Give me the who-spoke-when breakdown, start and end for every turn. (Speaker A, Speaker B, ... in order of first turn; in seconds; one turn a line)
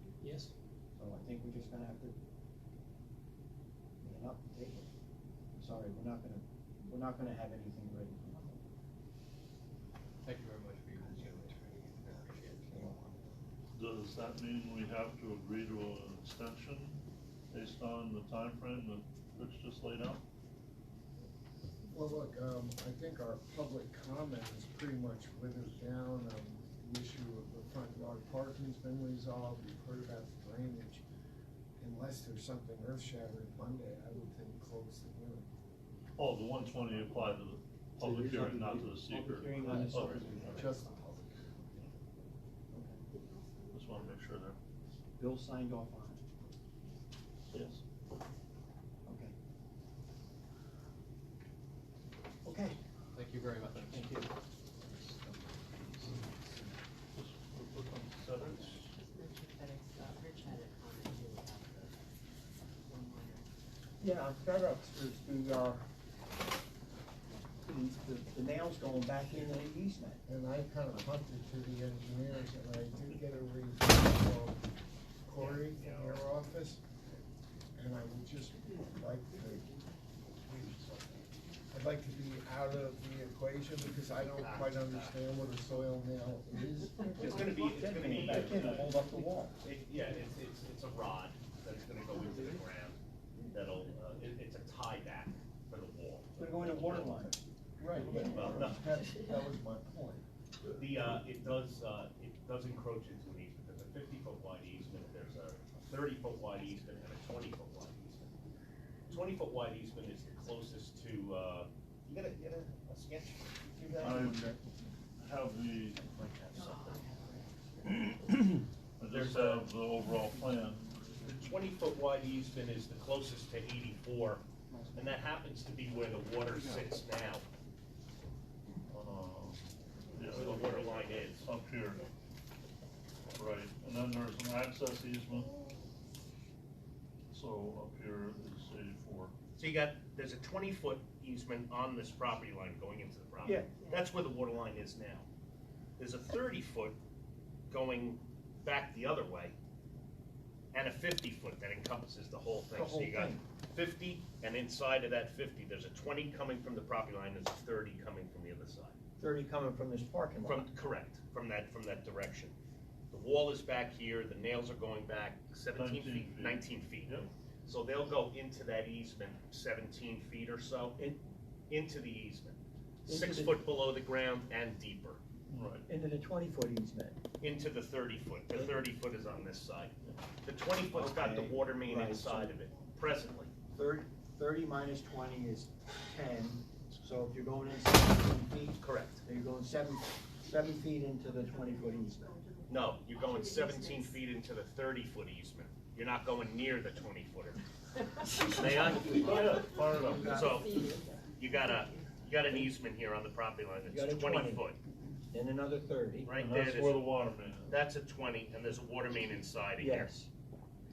Speaker A: 0.2-0.5
Speaker B: 0.9-2.1
Speaker B: 4.0-4.9
Speaker B: 5.5-8.6
Speaker A: 10.2-12.7
Speaker B: 12.7-13.2
Speaker C: 13.7-17.0
Speaker C: 17.5-20.2
Speaker D: 21.9-31.0
Speaker D: 31.8-35.5
Speaker C: 36.2-40.7
Speaker B: 38.0-40.7
Speaker D: 39.6-41.4
Speaker B: 42.7-43.0
Speaker C: 43.7-44.6
Speaker B: 45.2-46.2
Speaker C: 47.5-47.8
Speaker B: 49.0-49.3
Speaker B: 52.4-52.8
Speaker A: 53.1-54.2
Speaker B: 53.9-54.2
Speaker A: 54.8-56.7
Speaker C: 57.1-58.9
Speaker E: 58.4-62.0
Speaker E: 62.8-63.5
Speaker B: 64.0-65.8
Speaker B: 67.6-70.2
Speaker D: 70.2-74.7
Speaker D: 75.2-76.8
Speaker F: 75.4-76.3
Speaker D: 77.7-79.8
Speaker F: 80.5-81.2
Speaker D: 81.7-87.6
Speaker F: 84.3-85.2
Speaker F: 87.2-88.8
Speaker B: 87.5-89.5
Speaker C: 88.5-88.8
Speaker F: 89.6-93.0
Speaker F: 93.5-97.2
Speaker B: 96.4-97.4
Speaker D: 97.8-100.2
Speaker C: 98.1-98.3
Speaker F: 98.2-98.8
Speaker F: 100.8-108.3
Speaker F: 109.1-114.3
Speaker C: 114.0-114.5
Speaker C: 115.2-116.1
Speaker F: 116.0-117.1
Speaker E: 116.5-118.4
Speaker C: 119.0-121.3
Speaker F: 119.1-119.7
Speaker F: 121.2-127.4
Speaker C: 128.9-132.1
Speaker F: 130.3-131.4
Speaker C: 133.3-135.6
Speaker C: 137.3-139.3
Speaker F: 139.6-145.3
Speaker B: 143.4-143.7
Speaker F: 146.0-147.0
Speaker F: 147.7-149.5
Speaker F: 150.7-158.9
Speaker B: 152.7-153.4
Speaker B: 159.2-160.7
Speaker F: 160.4-162.5
Speaker F: 163.1-171.1
Speaker C: 165.7-167.2
Speaker F: 171.7-175.2
Speaker B: 173.1-173.6
Speaker C: 175.5-175.8
Speaker B: 175.9-177.2
Speaker F: 177.4-183.5
Speaker B: 180.9-182.5
Speaker B: 183.7-192.3
Speaker F: 188.7-189.2
Speaker F: 192.7-197.6
Speaker B: 198.3-200.9
Speaker F: 198.4-199.6
Speaker C: 199.1-200.4
Speaker F: 200.2-200.8
Speaker E: 200.8-201.0
Speaker F: 201.3-204.8
Speaker B: 203.9-204.7
Speaker B: 205.3-206.3
Speaker F: 206.2-207.1
Speaker C: 206.3-207.8
Speaker F: 207.7-210.1
Speaker B: 209.8-210.3